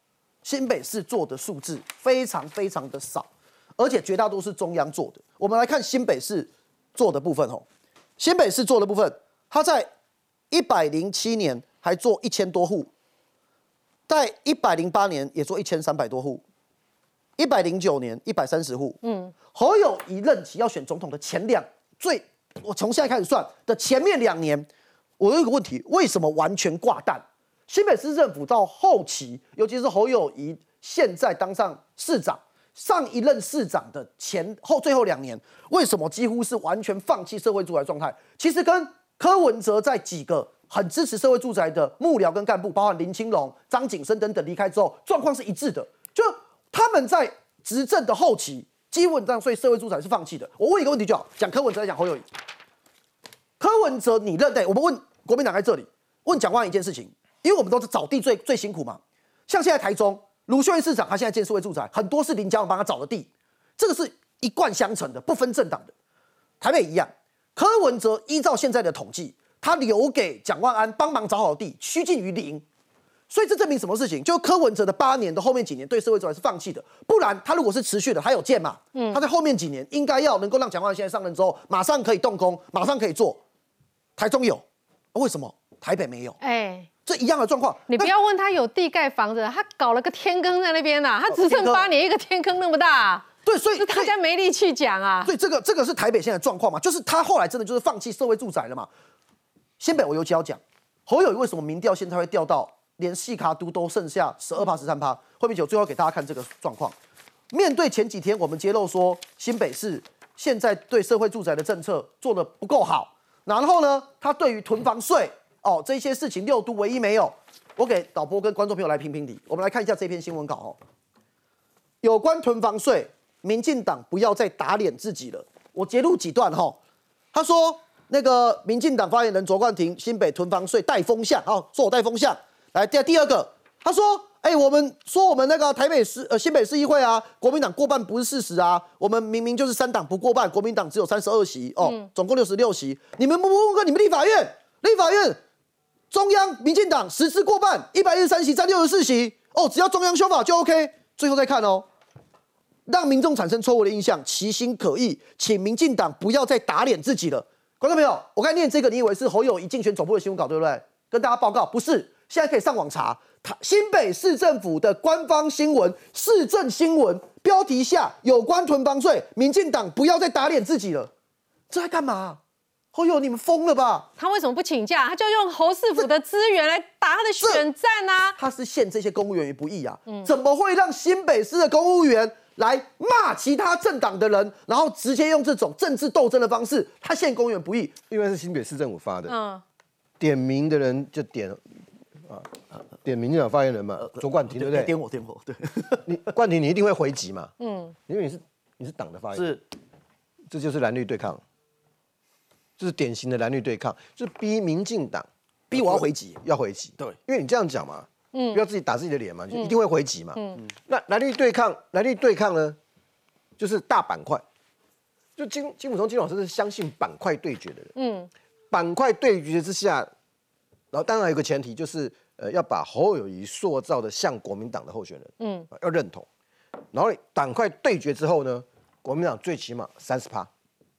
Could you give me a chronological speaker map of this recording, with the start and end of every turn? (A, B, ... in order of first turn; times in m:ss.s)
0:00.4-0:07.6 A
0:08.2-0:09.9 A
0:10.5-0:12.9 A
0:14.1-0:16.4 A
0:17.4-0:24.7 A
0:19.0-0:19.4 B
0:25.2-0:52.2 A
0:53.6-1:05.9 A
1:06.6-1:12.6 A
1:13.3-1:23.4 A
1:19.0-1:19.2 B
1:24.2-1:26.4 A
1:26.4-1:26.9 B
1:27.0-1:28.1 A
1:27.9-1:35.3 B
1:31.3-1:31.9 A
1:33.4-1:34.1 A
1:35.2-1:38.9 A
1:39.8-1:47.0 A
1:47.5-2:00.8 A
2:02.0-2:06.8 A
2:07.3-2:25.4 A
2:21.8-2:22.1 B
2:26.1-2:31.9 A
2:32.9-2:51.1 A
2:51.7-2:52.4 A
2:52.9-2:54.1 A
2:54.2-2:58.4 B
2:58.4-3:08.0 A
3:00.1-3:00.3 B
3:08.1-3:09.3 C
3:09.3-3:09.6 B
3:10.2-3:11.6 C
3:12.3-3:14.9 C
3:14.6-3:16.0 A
3:16.1-3:17.5 C
3:17.6-3:18.0 B
3:18.1-3:19.6 C
3:19.3-3:19.6 A
3:20.5-3:21.4 C
3:22.8-3:32.8 C
3:25.7-3:26.4 A
3:28.3-3:28.6 B
3:30.4-3:30.6 B
3:33.6-3:34.4 C
3:35.4-3:37.9 C
3:38.0-3:38.3 B
3:38.7-3:40.1 C
3:40.9-3:46.3 C
3:45.4-3:45.7 B
3:46.9-3:50.5 C